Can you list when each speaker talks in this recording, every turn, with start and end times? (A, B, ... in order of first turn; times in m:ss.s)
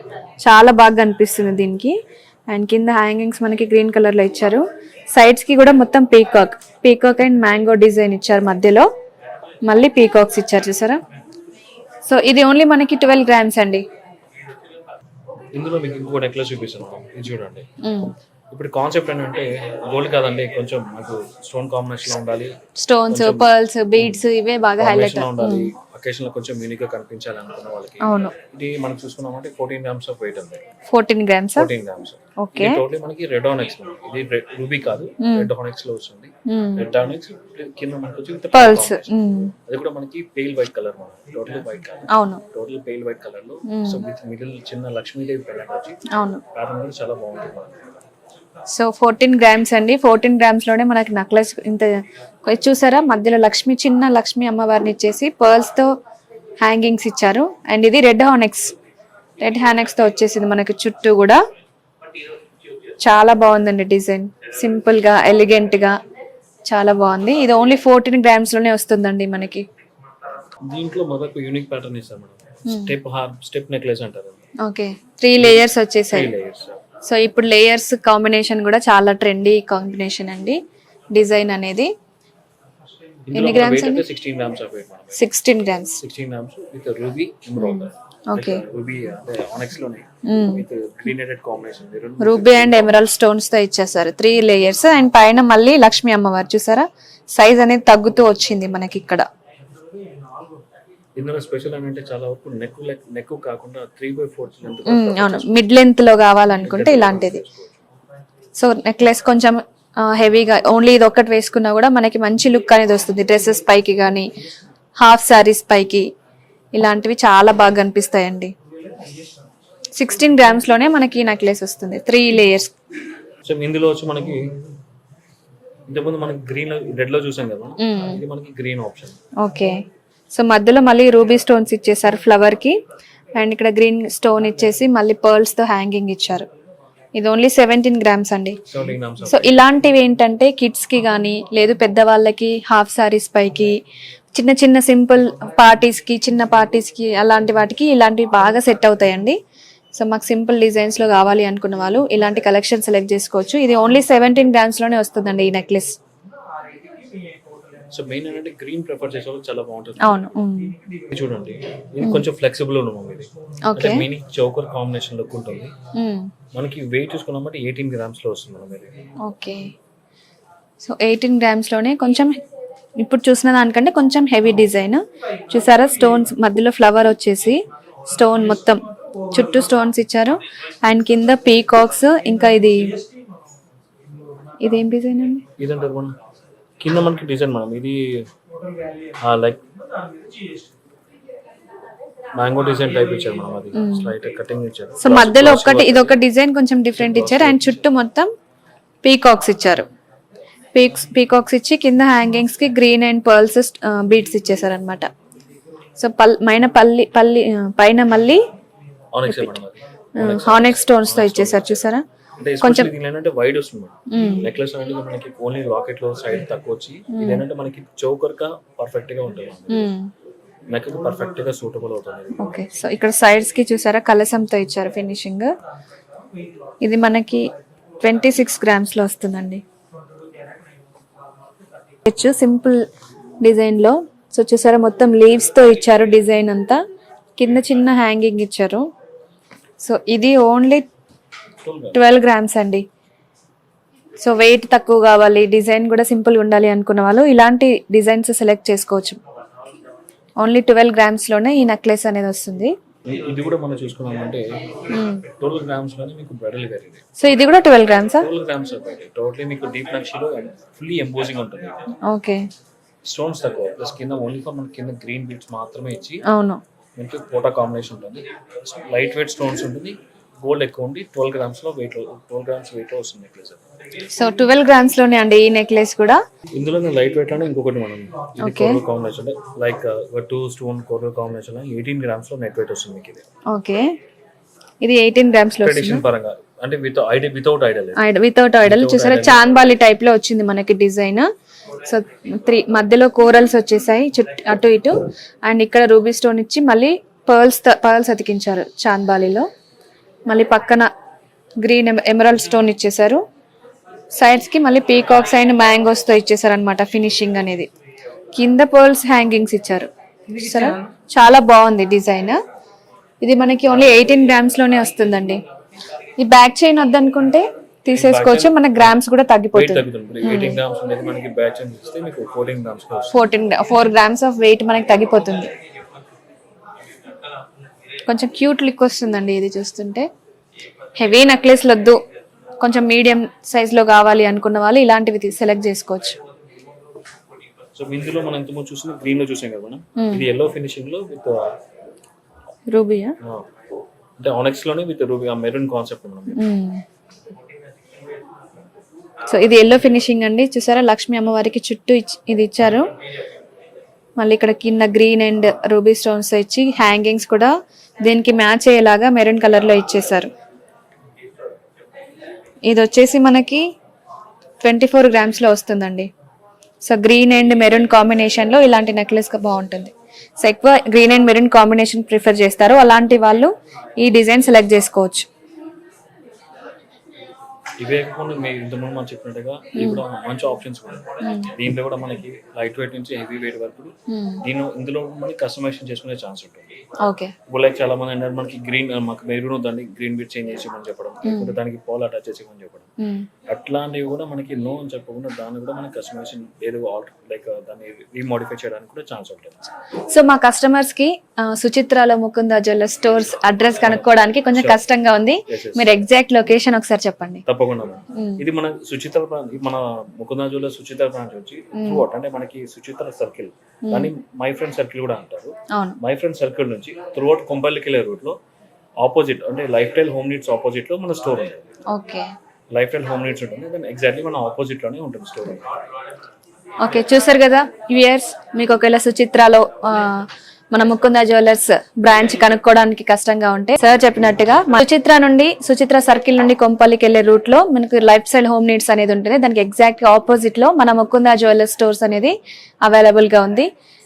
0:00.4-0:02.0 A
0:02.5-0:04.6 A
0:05.1-0:08.9 A
0:09.7-0:11.0 A
0:12.0-0:13.8 A
0:15.6-0:17.7 B
0:17.8-0:18.1 A
0:18.5-0:22.6 B
0:22.8-0:25.7 A
0:23.1-0:24.3 B
0:24.8-0:30.6 B
0:28.0-0:28.3 A
0:30.9-0:31.7 A
0:31.6-0:39.1 B
0:32.4-0:32.8 A
0:35.2-0:35.5 A
0:36.5-0:36.9 A
0:38.5-0:39.5 A
0:39.7-0:46.0 B
0:42.1-0:42.4 A
0:43.7-0:44.0 A
0:46.1-0:46.4 A
0:46.5-0:47.8 B
0:48.7-0:51.9 A
0:52.5-0:55.9 A
0:56.6-0:58.7 A
0:59.4-1:01.4 A
1:03.0-1:05.9 A
1:06.7-1:09.6 A
1:10.7-1:14.4 B
1:12.7-1:13.0 A
1:14.6-1:16.3 A
1:15.4-1:16.8 B
1:17.0-1:20.6 A
1:21.1-1:21.9 A
1:23.3-1:25.2 B
1:23.3-1:24.0 A
1:25.2-1:26.0 A
1:26.0-1:33.0 B
1:27.6-1:28.6 A
1:30.3-1:30.6 A
1:32.2-1:39.2 A
1:41.2-1:45.5 B
1:44.9-1:47.4 A
1:46.6-1:47.8 B
1:48.6-1:54.3 A
1:55.0-1:56.0 A
1:56.8-1:58.5 A
2:00.0-2:02.7 A
2:03.4-2:04.5 B
2:05.9-2:09.2 B
2:07.8-2:08.2 A
2:09.4-2:09.8 A
2:10.3-2:12.8 A
2:13.4-2:16.5 A
2:17.2-2:18.6 A
2:18.7-2:19.7 B
2:19.3-2:23.8 A
2:24.4-2:29.4 A
2:30.0-2:36.0 A
2:37.9-2:40.2 B
2:40.0-2:40.8 A
2:41.1-2:45.7 B
2:43.7-2:44.0 A
2:46.0-2:46.3 A
2:46.5-2:49.0 B
2:49.2-2:49.7 A
2:50.8-2:52.3 A
2:53.0-3:03.0 A
3:04.6-3:05.4 A
3:05.6-3:06.1 B
3:06.8-3:08.2 B
3:09.2-3:09.6 B
3:12.4-3:16.2 B
3:13.7-3:14.1 A
3:15.0-3:18.3 A
3:17.0-3:17.8 B
3:19.0-3:19.9 A
3:20.7-3:25.1 A
3:26.0-3:28.4 A
3:29.1-3:31.8 B
3:29.3-3:29.6 A
3:30.2-3:32.0 A
3:32.4-3:39.9 B
3:32.6-3:32.9 A
3:34.1-3:34.5 A
3:37.1-3:37.4 A
3:39.7-3:40.1 A
3:40.7-3:42.5 B
3:42.4-3:45.5 A
3:46.8-3:47.5 A
3:48.0-3:49.6 A
3:52.0-3:52.8 A
3:53.4-3:56.8 A
3:57.4-3:58.8 A
3:59.8-4:00.8 A
4:01.6-4:02.0 B
4:01.9-4:02.8 A
4:04.2-4:09.2 A
4:10.4-4:12.7 A
4:13.1-4:14.4 B
4:14.9-4:15.3 A
4:15.4-4:17.1 B
4:17.2-4:18.3 A
4:18.2-4:21.9 B
4:22.0-4:22.4 A
4:23.0-4:26.2 B
4:26.3-4:26.6 A
4:27.0-4:33.6 B
4:34.2-4:36.2 A
4:36.5-4:43.2 B
4:38.4-4:38.8 A
4:43.5-4:43.9 A
4:44.8-4:46.0 A
4:45.6-4:48.0 B
4:48.0-4:51.3 A
4:48.6-4:49.4 B
4:51.8-4:59.5 A
5:00.3-5:00.9 A
5:01.6-5:03.2 A
5:04.2-5:07.7 A
5:08.4-5:12.4 A
5:13.2-5:15.4 A
5:16.2-5:20.6 A
5:17.9-5:19.0 B
5:19.5-5:23.2 B
5:23.1-5:25.5 A
5:28.1-5:30.1 A
5:31.0-5:32.0 A
5:32.6-5:36.2 A
5:37.8-5:41.5 B
5:40.0-5:40.3 A
5:42.7-5:43.2 A
5:44.2-5:46.4 B
5:46.3-5:46.8 A
5:49.3-5:52.9 A
5:54.2-6:00.3 A
6:02.7-6:03.6 A
6:04.6-6:06.1 A
6:06.8-6:15.3 A
6:17.8-6:23.9 B
6:19.8-6:20.0 A
6:21.2-6:21.5 A
6:24.1-6:24.4 A
6:24.4-6:26.7 B
6:27.0-6:27.3 A
6:27.5-6:32.9 B
6:31.2-6:31.6 A
6:33.0-6:33.3 A
6:33.5-6:39.7 B
6:40.1-6:47.4 A
6:44.5-6:44.8 B
6:45.5-6:45.9 B
6:47.5-6:58.4 B
6:48.2-6:48.4 A
6:51.8-6:52.0 A
6:53.9-6:54.1 A
6:55.7-6:56.0 A
6:59.0-7:01.6 B
7:01.9-7:02.3 A
7:02.7-7:05.6 B
7:06.8-7:23.7 A